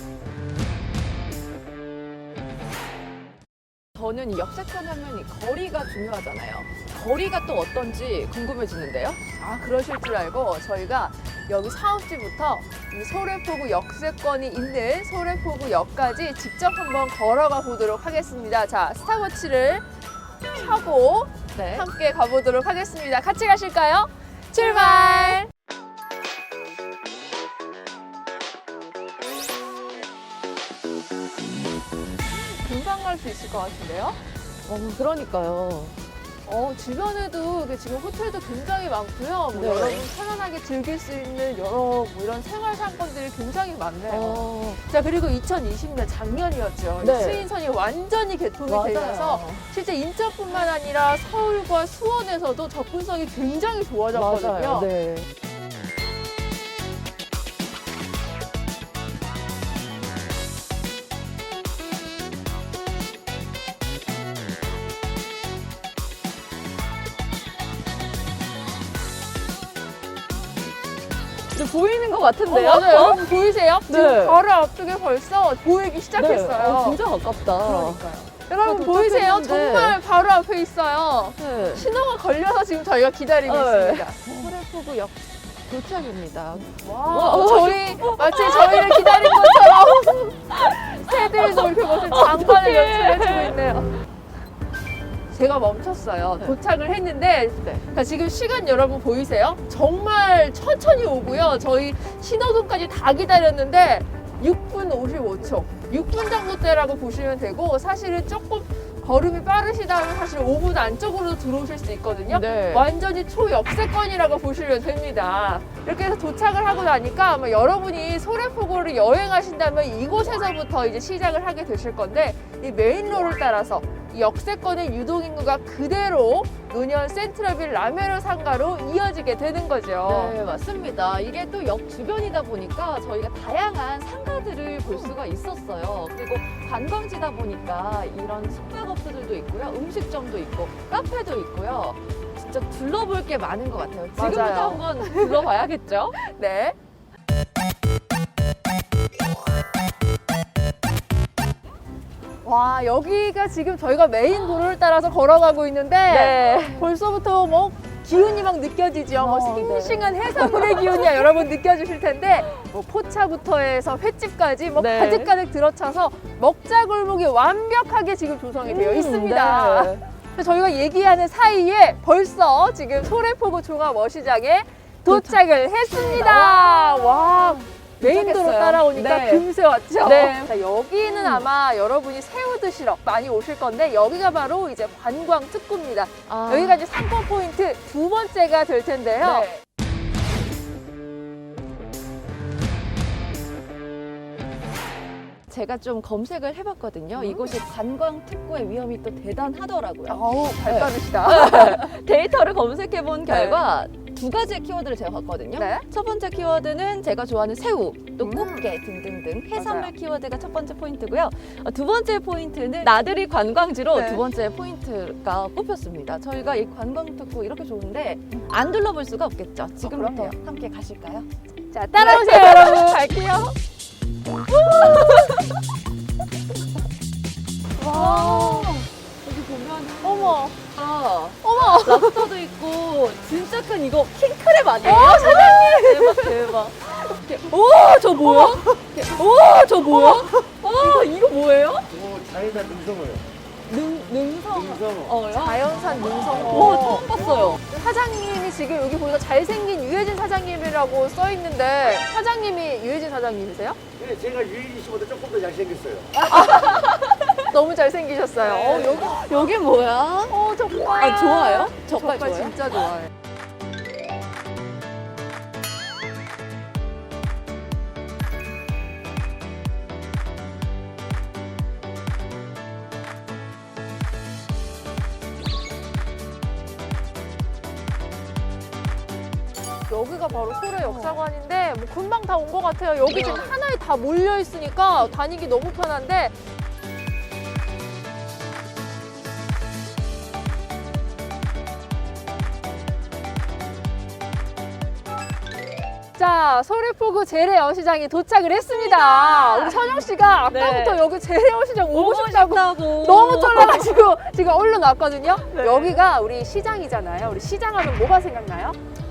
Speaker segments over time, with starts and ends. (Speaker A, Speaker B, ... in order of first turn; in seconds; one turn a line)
Speaker A: 3.9-9.2
Speaker B: 9.4-19.8
Speaker B: 20.5-25.5
Speaker A: 21.5-21.9
Speaker A: 24.6-25.4
Speaker B: 32.4-34.2
Speaker A: 34.6-36.0
Speaker B: 36.4-54.9
Speaker A: 39.5-40.0
Speaker A: 44.1-44.8
Speaker A: 47.0-47.4
Speaker A: 48.6-49.7
Speaker A: 54.1-55.3
Speaker A: 71.5-73.3
Speaker B: 72.5-77.0
Speaker A: 73.8-74.4
Speaker A: 76.2-78.0
Speaker B: 77.6-84.5
Speaker A: 78.6-80.0
Speaker A: 81.3-81.9
Speaker A: 83.4-93.5
Speaker B: 86.8-93.9
Speaker B: 95.3-130.4
Speaker A: 112.3-112.9
Speaker A: 130.0-146.2
Speaker B: 144.2-145.5
Speaker B: 146.2-146.8
Speaker B: 152.4-189.5
Speaker A: 156.1-156.9
Speaker A: 159.2-161.2
Speaker A: 164.8-165.3
Speaker A: 168.6-170.0
Speaker A: 175.1-179.5
Speaker A: 180.0-181.5
Speaker A: 186.3-186.8
Speaker A: 189.2-189.6
Speaker A: 195.5-221.3
Speaker B: 197.2-197.4
Speaker B: 200.1-201.9
Speaker B: 203.3-203.6
Speaker B: 205.6-205.8
Speaker B: 208.2-208.6
Speaker B: 209.5-209.9
Speaker B: 213.9-214.2
Speaker B: 219.8-220.4
Speaker B: 221.7-223.5
Speaker A: 222.0-222.7
Speaker B: 224.6-225.3
Speaker A: 224.7-225.3
Speaker B: 227.8-228.8
Speaker A: 227.8-241.9
Speaker B: 230.0-230.5
Speaker B: 231.4-232.3
Speaker B: 234.8-236.3
Speaker B: 238.2-238.6
Speaker B: 239.9-241.1
Speaker C: 241.9-243.2
Speaker A: 243.7-247.6
Speaker C: 244.7-245.1
Speaker B: 245.3-247.1
Speaker B: 247.6-253.8
Speaker C: 254.0-256.1
Speaker A: 256.1-257.3
Speaker B: 256.3-259.2
Speaker A: 258.4-260.4
Speaker B: 260.3-263.1
Speaker A: 261.0-262.6
Speaker B: 279.9-286.3
Speaker A: 280.8-281.2
Speaker A: 283.1-283.6
Speaker B: 296.1-308.8
Speaker A: 298.7-301.0
Speaker A: 301.9-303.9
Speaker A: 305.4-306.0